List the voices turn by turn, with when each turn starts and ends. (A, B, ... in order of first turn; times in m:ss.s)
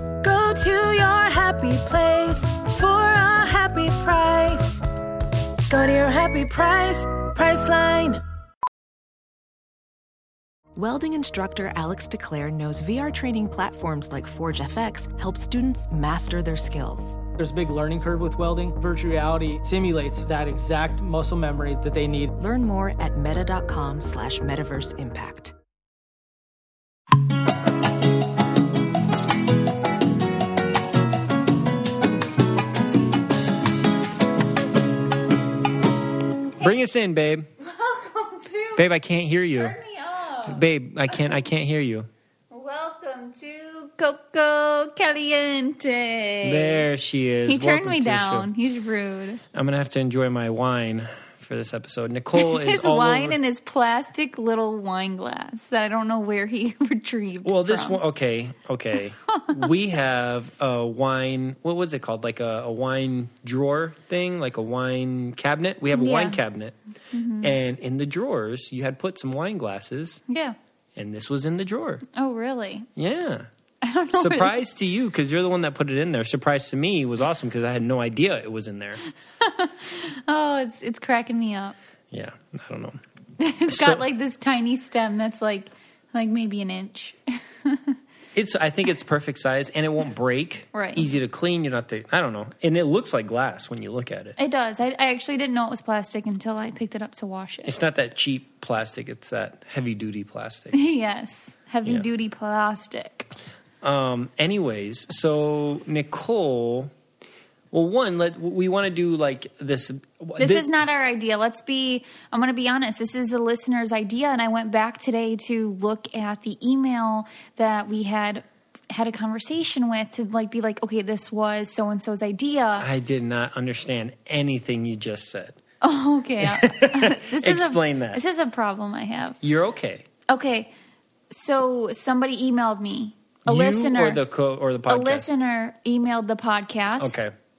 0:00.2-0:04.8 A
0:05.7-0:08.2 A
0:10.8-0:17.2 B
0:17.4-0:22.3 C
0:22.4-0:25.5 B
0:36.6-0:37.5 D
0:37.6-0:38.9 E
0:38.8-0:39.8 D
0:39.5-0:41.3 E
0:40.5-0:42.1 D
0:42.5-0:46.9 E
0:46.4-0:48.5 D
0:47.5-0:49.4 E
0:49.5-0:53.4 D
0:52.4-0:58.0 E
0:57.4-1:06.8 D
1:05.9-1:06.4 E
1:07.1-1:07.6 E
1:07.4-1:10.2 D
1:10.3-1:10.6 E
1:11.0-1:12.0 D
1:12.2-1:12.9 E
1:13.0-1:13.5 D
1:13.8-1:14.6 E
1:14.1-1:19.0 D
1:19.4-1:21.8 E
1:22.1-1:23.0 D
1:23.4-1:28.0 E
1:23.7-1:24.1 D
1:28.4-1:34.4 D
1:30.7-1:31.1 E
1:34.4-1:37.8 E
1:37.6-1:40.8 D
1:40.7-1:43.3 E
1:43.8-1:46.9 D
1:47.7-1:50.7 D
1:50.4-2:02.9 E
2:02.8-2:05.6 D
2:05.8-2:09.4 E
2:06.4-2:08.2 D
2:09.4-2:10.1 D
2:10.3-2:10.7 E
2:11.3-2:14.2 E
2:13.5-2:15.3 D
2:14.9-2:17.2 E
2:17.0-2:17.3 D